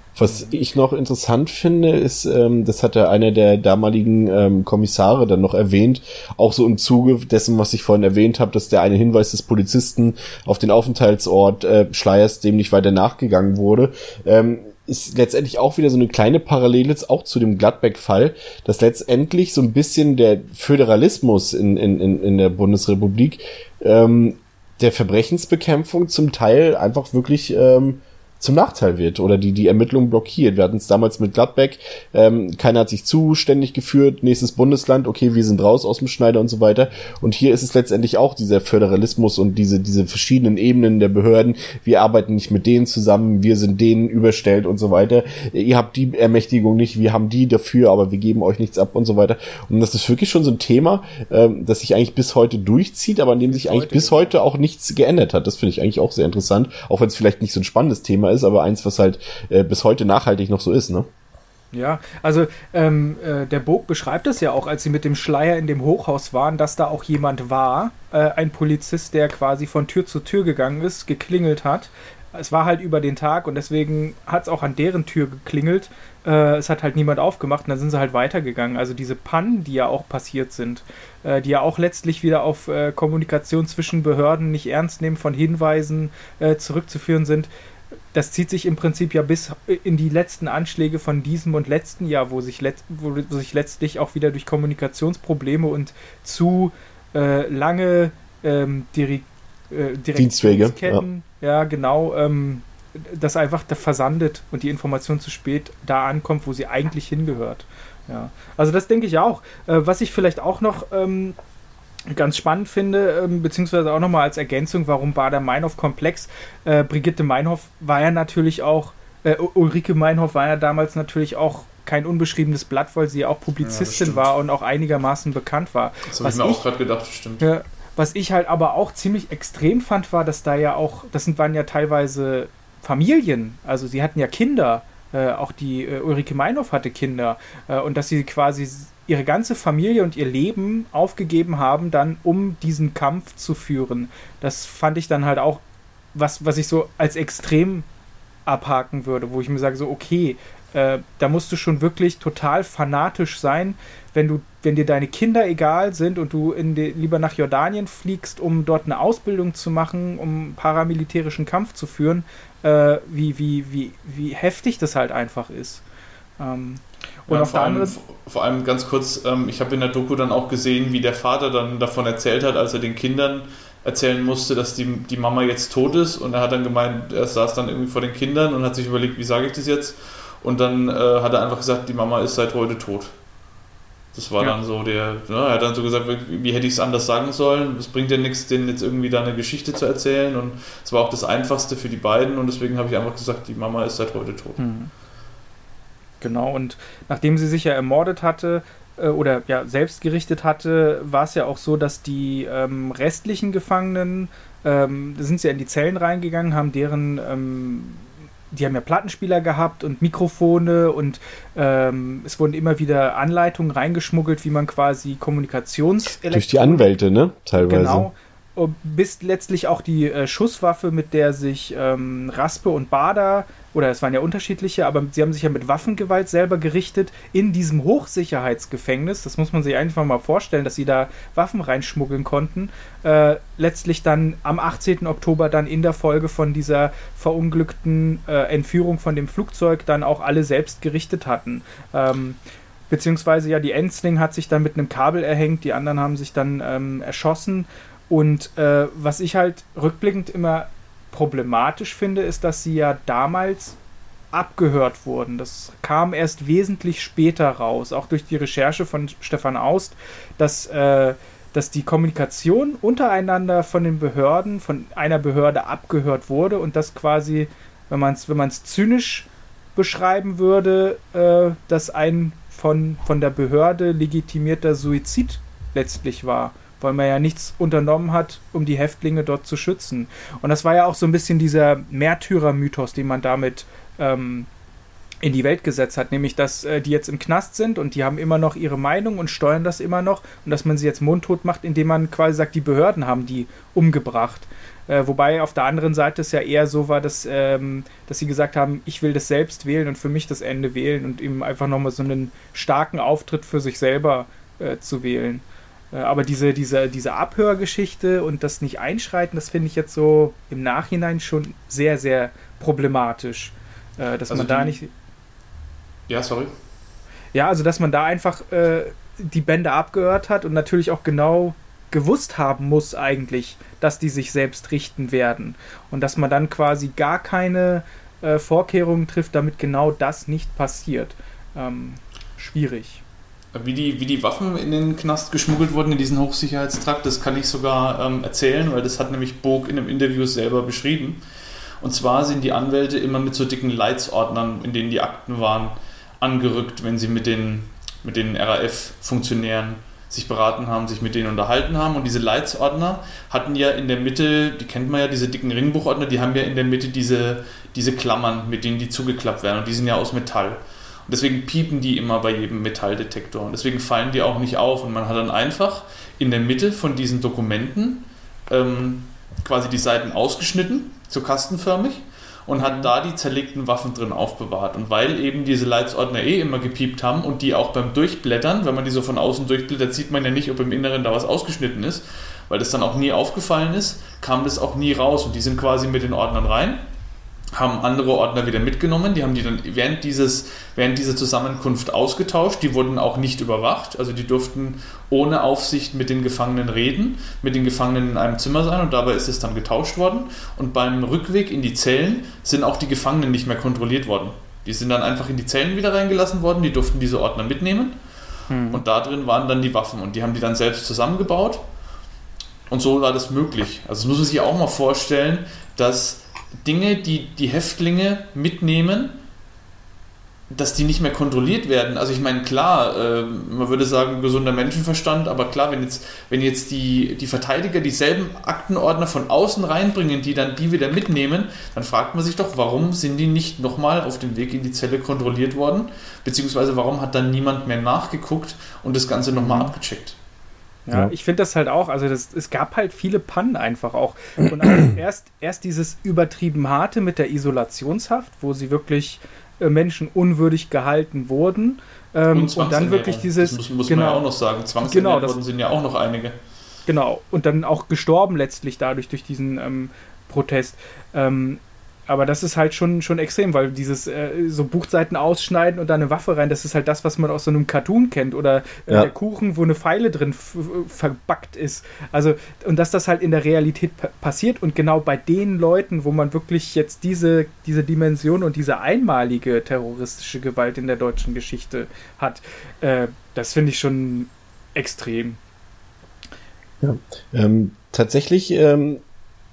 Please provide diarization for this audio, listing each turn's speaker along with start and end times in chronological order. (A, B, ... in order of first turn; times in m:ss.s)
0:00.2-1:01.1 A
0:00.3-0:00.6 B
0:53.5-0:54.4 B
1:01.7-1:27.5 B
1:28.1-1:51.4 B
1:40.2-1:41.0 A
1:52.1-2:06.6 B
2:03.6-2:04.2 C
2:06.1-2:07.4 C
2:07.4-2:25.6 B
2:26.1-2:27.9 B
2:28.5-2:45.8 B
2:46.4-2:47.9 B
2:47.3-3:03.1 C
3:04.1-3:14.6 C
3:14.6-3:14.9 B
3:16.2-3:36.9 B
3:36.3-3:38.1 A
3:37.6-4:02.4 B
4:02.9-4:13.8 B
4:14.3-4:44.5 B
4:45.2-5:14.9 B
5:14.3-5:14.8 C
5:16.1-5:16.5 C
5:17.3-5:33.0 B
5:33.5-5:41.2 C
5:41.8-6:26.8 C
6:12.6-6:12.9 B
6:27.6-6:48.0 C
6:48.5-6:48.8 B
6:48.7-6:51.6 C
6:52.7-6:59.2 C
7:00.5-7:20.2 C
7:19.4-7:19.7 B
7:20.8-7:34.2 B
7:32.3-7:36.4 C
7:34.8-7:35.4 B
7:36.9-8:05.4 B
8:06.8-8:09.0 A